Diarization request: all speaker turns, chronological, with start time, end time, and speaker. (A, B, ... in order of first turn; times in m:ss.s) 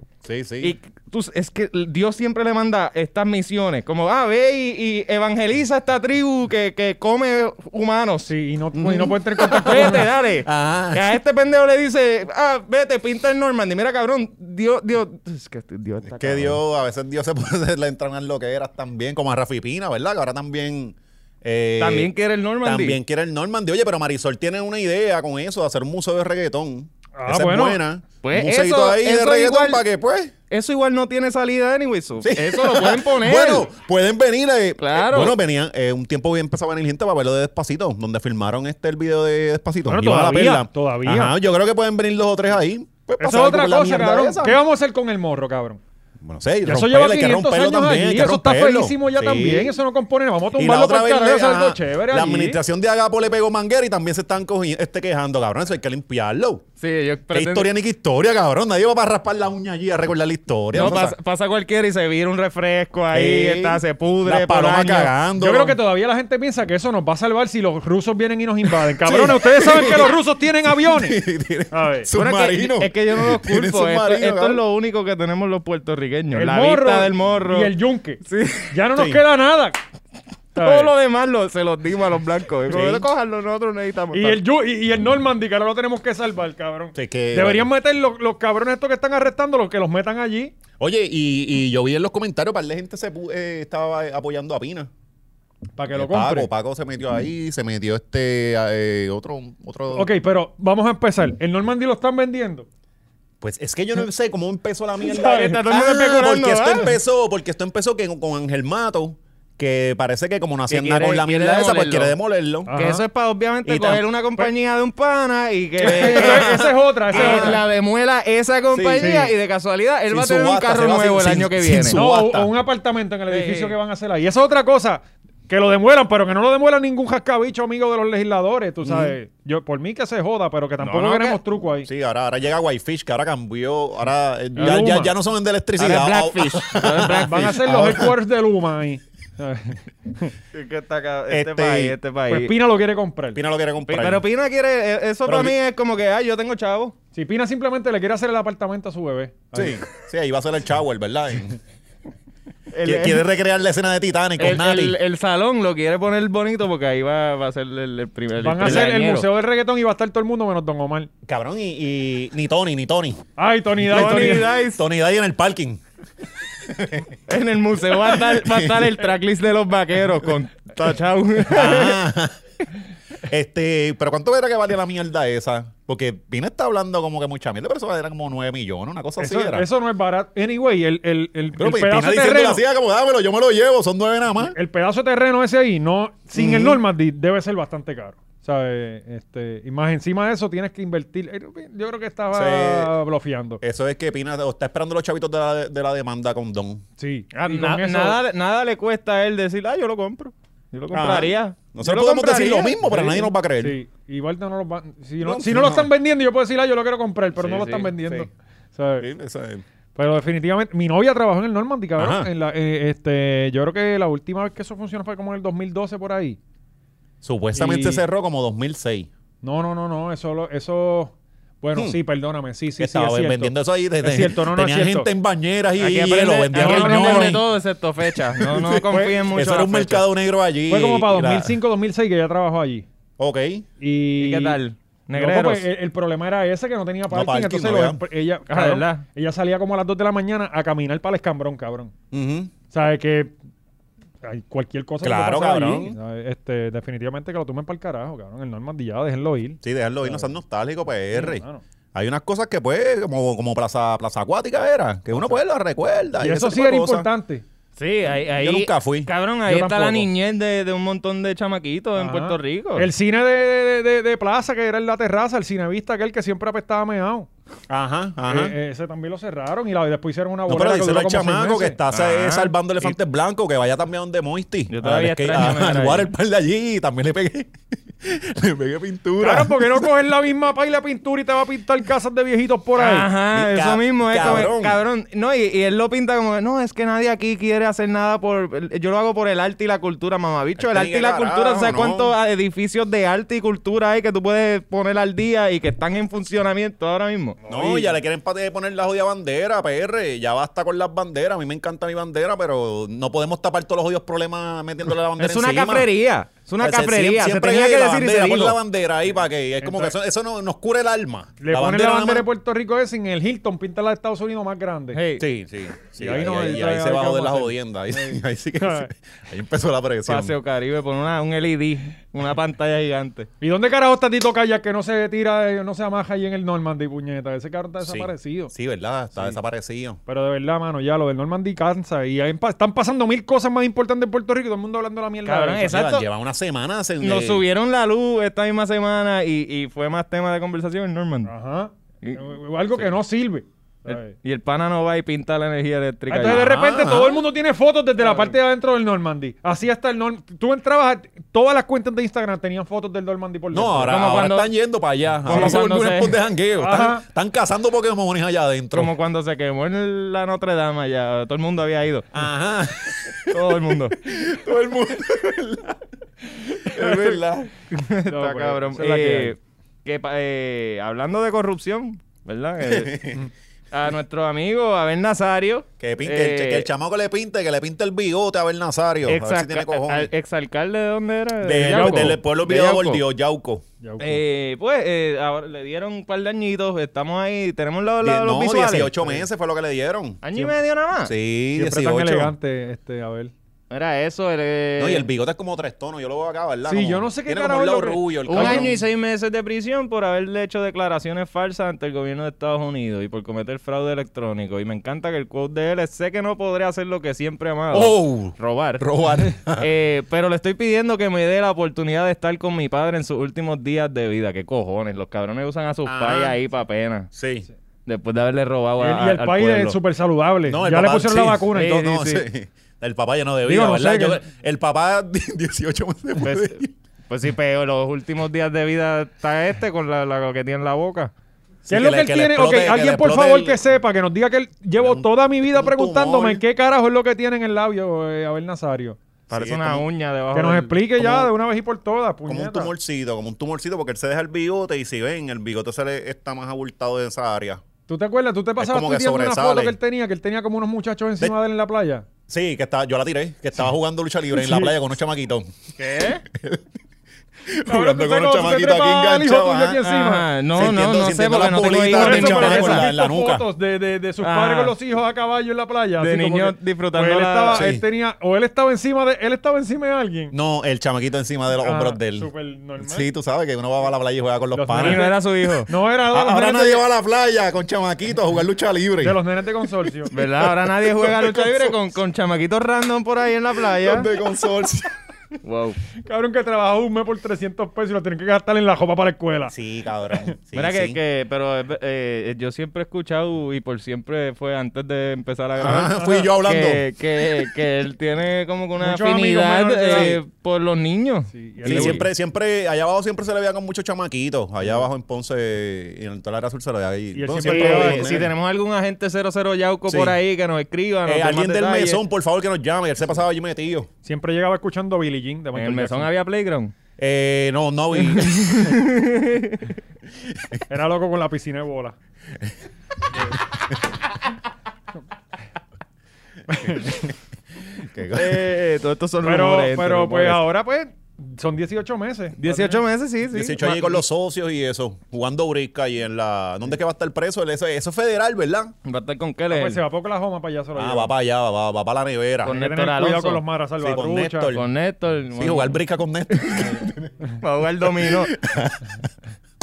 0:00.2-0:00.8 A
0:00.6-0:08.3 B
0:08.3-0:10.0 C
0:08.8-0:11.1 A
0:09.5-0:16.6 B
0:16.1-0:22.1 A
0:21.8-0:23.0 B
0:22.6-0:30.3 A
0:27.2-0:27.8 C
0:28.2-0:29.8 B
0:30.5-0:33.7 B
0:32.2-0:44.6 A
0:34.8-0:35.4 B
0:39.9-0:41.4 C
0:43.2-0:45.8 C
0:46.2-0:49.8 A
0:46.6-0:52.6 C
0:50.6-0:56.6 A
0:56.8-0:57.7 B
0:57.3-1:01.2 A
1:00.7-1:05.1 B
1:03.1-1:05.8 A
1:05.4-1:12.1 C
1:09.0-1:14.6 A
1:12.1-1:18.8 B
1:16.3-1:19.8 C
1:19.0-1:19.2 A
1:20.6-1:20.9 C
1:20.6-1:24.4 B
1:22.7-1:23.1 A
1:24.1-1:30.5 C
1:27.0-1:27.7 A
1:30.8-1:34.9 A
1:35.8-1:36.5 C
1:35.9-1:40.1 A
1:39.9-1:42.7 C
1:43.4-1:52.7 A
1:45.1-1:46.9 B
1:45.3-1:45.6 C
1:50.7-1:52.1 B
1:52.7-1:53.0 C
1:52.7-2:02.0 B
1:53.7-1:54.0 A
1:55.8-1:57.6 C
1:55.8-1:57.6 A
1:58.7-1:59.3 A
1:59.0-1:59.3 C
2:00.1-2:02.5 A
2:01.9-2:11.9 C
2:03.3-2:03.8 B
2:08.8-2:09.2 A
2:10.8-2:11.4 B
2:11.8-2:18.1 A
2:14.6-2:15.1 C
2:14.6-2:14.9 B
2:15.8-2:17.6 B
2:17.3-2:20.3 C
2:20.5-2:22.5 B
2:21.3-2:22.0 A
2:22.3-2:23.4 C
2:23.4-2:24.2 A
2:23.9-2:26.9 B
2:25.3-2:25.6 A
2:27.1-2:29.8 C
2:29.6-2:31.6 A
2:32.7-2:33.2 B
2:32.8-2:35.0 A
2:34.4-2:39.3 B
2:38.4-2:41.1 C
2:41.2-2:43.2 A
2:43.4-2:44.6 C
2:43.9-2:44.8 B
2:43.9-2:45.8 A
2:46.6-2:47.2 A
2:47.3-2:52.0 B
2:47.9-2:49.0 A
2:51.5-2:52.4 A
2:53.2-2:59.7 A
2:59.2-3:02.6 C
3:01.6-3:04.6 A
3:04.4-3:13.6 C
3:06.4-3:06.8 A
3:12.3-3:12.9 A
3:13.6-3:16.8 A
3:17.0-3:18.2 C
3:17.3-3:22.8 B
3:20.9-3:23.8 A
3:22.8-3:29.1 C
3:25.2-3:25.9 A
3:27.4-3:27.9 B
3:28.0-3:28.3 A
3:29.0-3:29.6 A
3:30.0-3:36.4 C
3:32.0-3:32.3 A
3:37.2-3:39.1 A
3:37.6-3:38.0 C
3:39.4-3:45.1 C
3:42.8-3:47.4 A
3:45.8-3:50.0 B
3:46.5-3:47.4 C
3:48.2-3:51.6 A
3:48.9-3:49.2 C
3:50.7-3:52.9 C
3:53.2-3:53.7 A
3:53.8-3:54.6 C
3:54.2-3:55.7 B
3:55.1-4:01.9 C
3:57.1-3:58.0 A
3:58.5-3:59.0 B
4:02.1-4:02.5 A
4:02.7-4:03.4 C
4:04.2-4:10.3 C
4:05.0-4:06.0 A
4:09.6-4:17.1 A
4:11.1-4:11.6 C
4:16.2-4:17.4 C
4:17.8-4:22.9 B
4:18.4-4:19.1 A
4:19.5-4:20.1 C
4:22.0-4:27.3 C
4:27.7-4:28.6 A
4:28.2-4:31.8 C
4:30.5-4:39.9 A
4:31.9-4:32.5 B
4:34.7-4:36.1 B
4:39.2-4:43.1 C
4:42.8-4:57.4 B
4:43.3-4:44.8 A
4:50.6-4:52.1 A
4:57.4-4:57.9 C
4:57.5-5:05.9 A
5:05.2-5:08.6 B
5:06.6-5:12.3 A
5:09.6-5:09.9 C
5:11.4-5:15.0 C
5:14.9-5:15.2 B
5:15.2-5:20.4 A
5:16.0-5:18.9 C
5:20.1-5:23.3 B
5:23.4-5:28.5 C
5:27.8-5:30.0 A
5:30.1-5:35.8 C
5:35.2-5:36.1 B
5:35.6-5:37.4 A
5:37.0-5:41.3 B
5:41.2-5:44.1 C
5:43.9-5:46.5 B
5:46.1-5:54.0 C
5:46.2-5:47.2 A
5:48.0-5:48.3 B
5:53.5-5:58.9 A
5:53.9-5:54.5 B
5:55.2-5:56.2 B
5:55.3-5:55.6 C
5:56.6-5:57.0 C
5:58.7-6:02.1 B
6:02.1-6:05.8 A
6:03.3-6:04.0 B
6:06.3-6:07.5 A
6:06.8-6:07.2 B
6:07.7-6:13.1 B
6:08.1-6:09.4 C
6:12.6-6:13.2 A
6:13.7-6:16.7 B
6:15.8-6:20.1 A
6:19.1-6:23.0 B
6:21.4-6:23.6 A
6:21.7-6:22.2 C
6:23.8-6:24.2 C
6:24.0-6:28.9 B
6:28.0-6:30.2 A
6:30.2-6:31.1 B
6:31.0-6:32.3 A
6:31.6-6:33.3 C
6:33.7-6:35.1 B
6:34.8-6:38.8 A
6:36.7-6:38.7 C
6:38.3-6:48.9 B
6:47.7-6:49.7 A
6:49.5-6:57.1 B
6:55.9-6:56.4 A
6:57.1-6:57.5 A
6:57.9-6:59.8 B
6:58.8-7:02.2 C
7:00.4-7:06.7 A
7:01.5-7:02.2 B
7:03.4-7:04.2 C
7:06.2-7:11.1 B
7:11.6-7:13.6 A
7:11.7-7:19.0 C
7:14.8-7:16.4 A
7:19.3-7:20.8 B
7:19.3-7:19.8 A
7:20.3-7:22.7 C
7:21.0-7:21.3 A
7:22.3-7:27.6 A
7:27.9-7:32.0 C
7:28.6-7:29.8 A
7:32.3-7:35.7 A
7:34.3-7:34.7 C
7:35.8-7:36.2 B
7:36.3-7:36.7 A
7:37.5-7:39.8 A
7:37.7-7:40.3 C
7:39.8-7:42.9 B
7:40.5-7:43.4 A
7:41.9-7:50.3 C
7:44.2-7:44.8 B
7:46.0-7:47.6 B
7:47.5-7:47.8 A
7:50.3-7:55.1 A
7:51.6-7:53.1 C
7:54.5-7:55.1 C
7:54.8-7:55.7 B
7:55.7-7:56.8 C
7:56.1-7:59.2 A
7:59.0-8:00.1 C
8:00.1-8:01.8 A
8:00.1-8:04.1 B
8:03.6-8:04.9 A
8:05.4-8:05.8 B
8:06.0-8:09.6 C
8:09.5-8:11.0 A
8:10.6-8:22.0 B
8:15.6-8:16.8 A
8:16.0-8:16.2 C
8:18.8-8:20.2 C
8:19.9-8:20.2 A
8:21.3-8:22.1 C
8:21.6-8:28.3 A
8:27.1-8:28.2 C
8:27.4-8:32.0 B
8:29.9-8:30.2 A
8:31.1-8:33.9 A
8:34.0-8:36.1 C
8:35.6-8:36.7 B
8:37.0-8:38.7 A
8:38.0-8:39.7 B
8:40.7-8:42.0 C
8:46.5-8:47.1 C
8:46.6-8:47.2 A
8:47.8-8:48.5 A
8:48.1-8:50.4 B
8:49.2-8:52.8 C
8:52.4-8:53.8 B
8:53.3-8:58.7 A
8:58.8-8:59.8 B
8:59.5-9:01.1 C
9:00.8-9:02.5 A
9:02.4-9:03.4 B
9:02.4-9:04.6 C
9:03.8-9:04.6 A
9:04.5-9:05.8 B
9:05.4-9:07.1 A
9:06.3-9:06.7 B
9:07.3-9:08.4 B
9:07.8-9:09.1 A